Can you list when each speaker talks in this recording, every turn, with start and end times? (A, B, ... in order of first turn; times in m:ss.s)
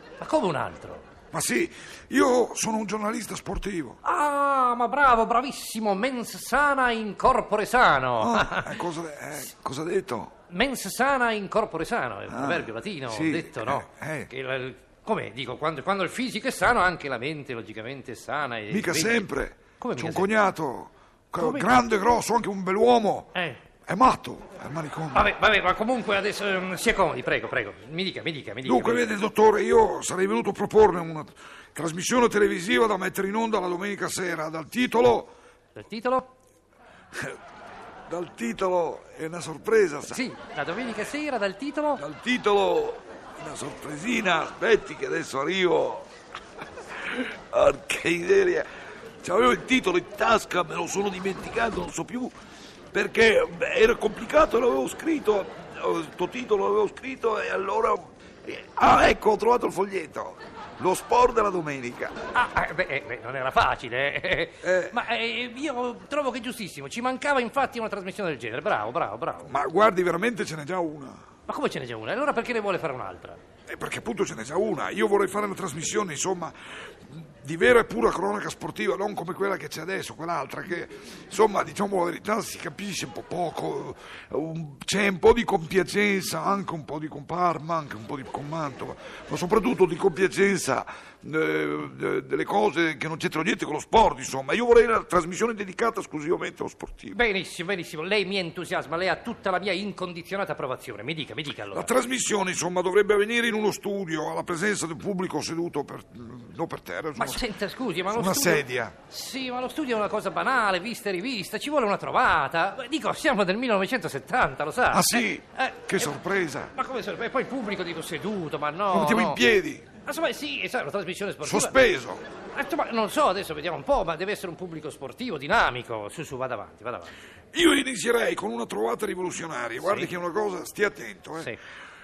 0:00.2-0:01.0 A
0:01.3-0:04.0 B
0:04.0-0:08.8 A
0:08.2-0:10.3 B
0:10.5-0:19.3 A
0:12.3-0:14.3 B
0:18.7-0:23.3 B
0:19.8-0:20.3 A
0:21.4-0:21.8 A
0:23.3-0:23.6 A
0:23.9-0:25.3 B
0:25.1-0:29.1 A
0:28.6-0:35.3 B
0:35.8-0:36.3 A
0:38.1-0:40.2 B
0:40.1-0:42.0 A
0:42.0-0:46.1 B
0:47.0-0:48.7 B
0:49.2-0:52.3 B
0:52.9-1:02.2 B
1:02.3-1:09.6 A
1:04.6-1:05.0 B
1:09.5-1:11.2 B
1:11.5-1:13.4 A
1:13.7-1:37.2 B
1:37.1-1:41.9 A
1:41.7-1:47.4 B
1:47.2-1:56.2 A
1:48.1-1:49.0 B
1:54.9-1:56.7 B
1:56.7-1:59.4 A
1:58.9-1:59.9 B
2:00.0-2:01.8 A
2:01.4-2:02.2 B
2:02.5-2:07.2 A
2:07.5-2:11.5 B
2:09.8-2:10.1 A